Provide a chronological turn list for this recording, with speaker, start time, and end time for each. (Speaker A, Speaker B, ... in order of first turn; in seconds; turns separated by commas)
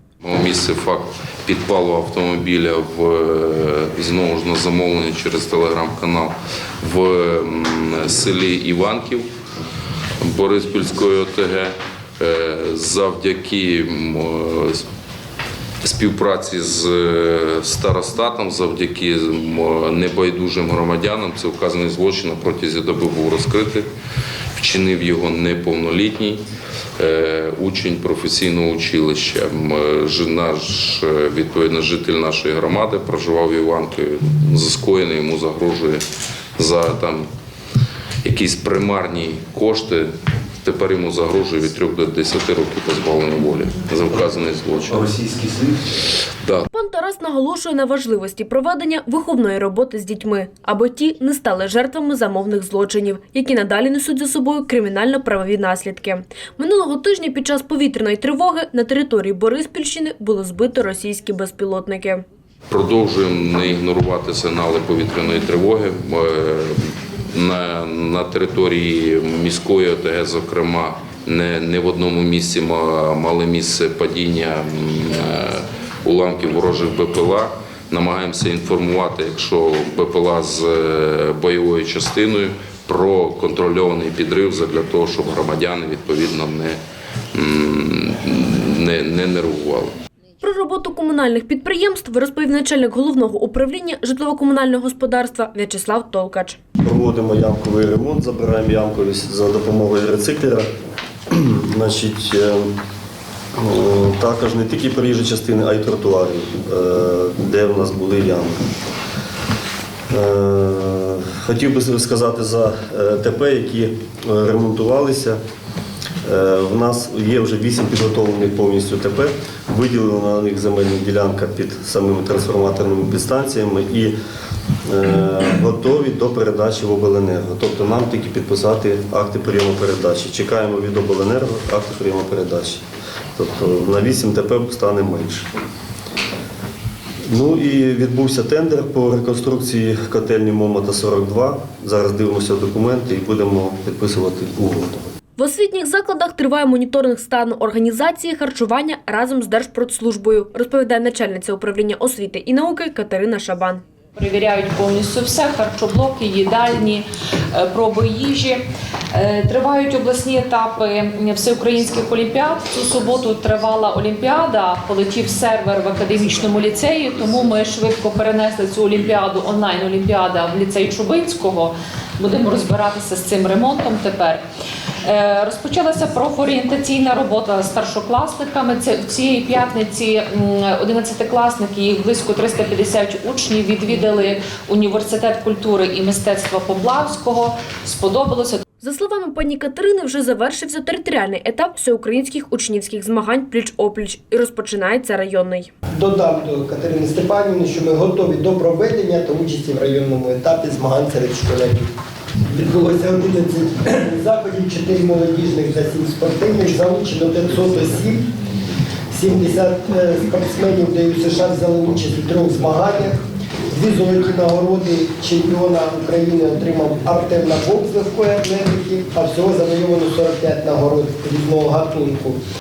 Speaker A: 0.2-9.3, Speaker A: 10.2-14.8, Speaker A: 15.8-23.9, Speaker A: 24.6-26.4, Speaker A: 27.0-36.0, Speaker A: 36.6-37.3, Speaker A: 38.2-40.1, Speaker A: 40.6-45.4, Speaker B: 46.7-62.2, Speaker A: 62.7-86.8, Speaker A: 87.3-89.9, Speaker B: 90.4-96.6, Speaker C: 96.8-100.7, Speaker C: 101.3-102.7, Speaker C: 103.6-108.5, Speaker C: 110.1-115.4, Speaker C: 116.2-124.1, Speaker C: 124.8-132.8, Speaker C: 133.3-135.5, Speaker C: 137.3-145.0, Speaker B: 145.4-153.8, Speaker D: 154.2-174.4, Speaker D: 175.0-188.6, Speaker B: 188.8-195.7, Speaker E: 195.9-201.9, Speaker E: 202.5-208.2, Speaker E: 209.1-213.2, Speaker E: 213.7-222.4